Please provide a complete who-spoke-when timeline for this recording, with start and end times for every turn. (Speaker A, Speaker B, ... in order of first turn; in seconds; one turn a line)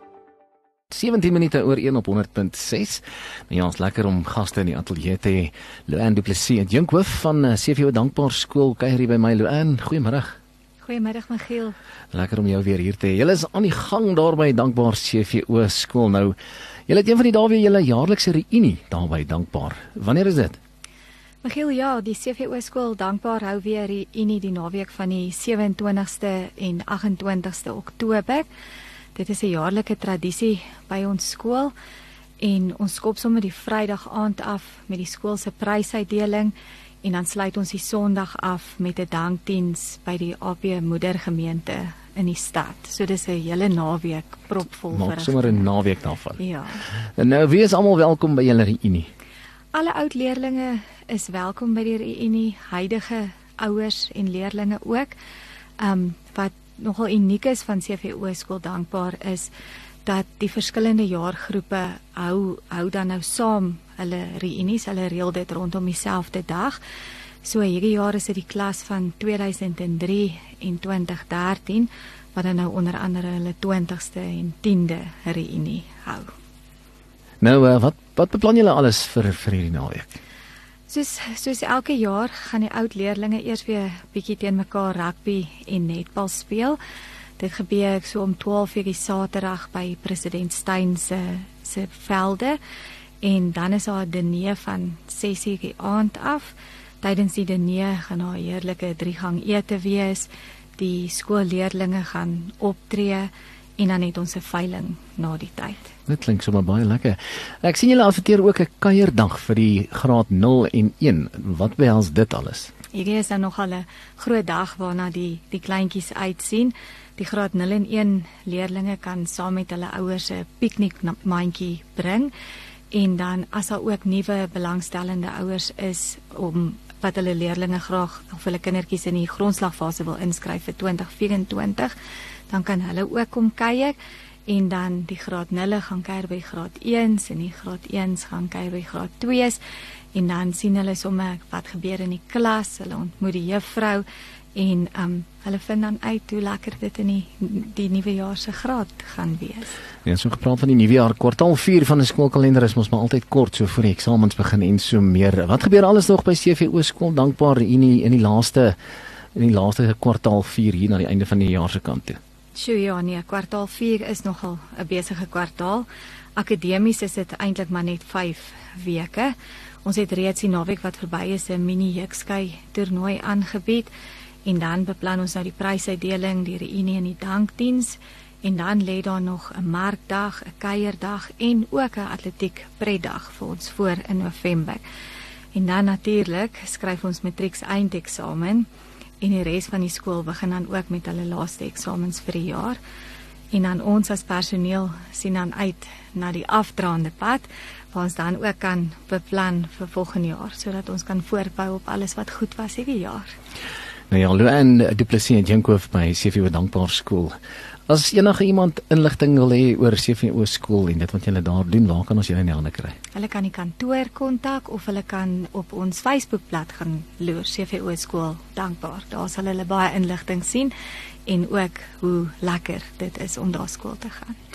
Speaker A: 0.9-10.3
Speaker B: 10.8-11.8
Speaker A: 12.1-16.3
Speaker A: 16.9-20.6
Speaker B: 21.4-28.5
Speaker B: 29.1-31.7
Speaker B: 32.4-45.7
Speaker A: 44.9-46.4
Speaker B: 46.4-46.8
Speaker A: 47.2-49.1
Speaker B: 49.7-55.1
Speaker B: 55.8-59.5
Speaker B: 60.0-66.8
Speaker B: 67.4-76.3
Speaker A: 77.4-80.2
Speaker B: 80.9-86.8
Speaker B: 87.4-92.6
Speaker B: 93.2-105.9
Speaker A: 106.1-112.7
Speaker B: 112.9-122.3
Speaker B: 122.9-131.9
Speaker B: 132.5-133.9
Speaker B: 134.5-139.6
Speaker B: 140.1-149.8
Speaker A: 150.0-158.8
Speaker A: 159.3-162.2
Speaker B: 162.5-173.9
Speaker B: 174.4-184.8
Speaker B: 185.5-188.7
Speaker B: 189.2-192.8
Speaker B: 193.5-203.3
Speaker A: 204.1-207.3
Speaker A: 207.9-212.9
Speaker B: 213.1-220.7
Speaker B: 221.2-224.3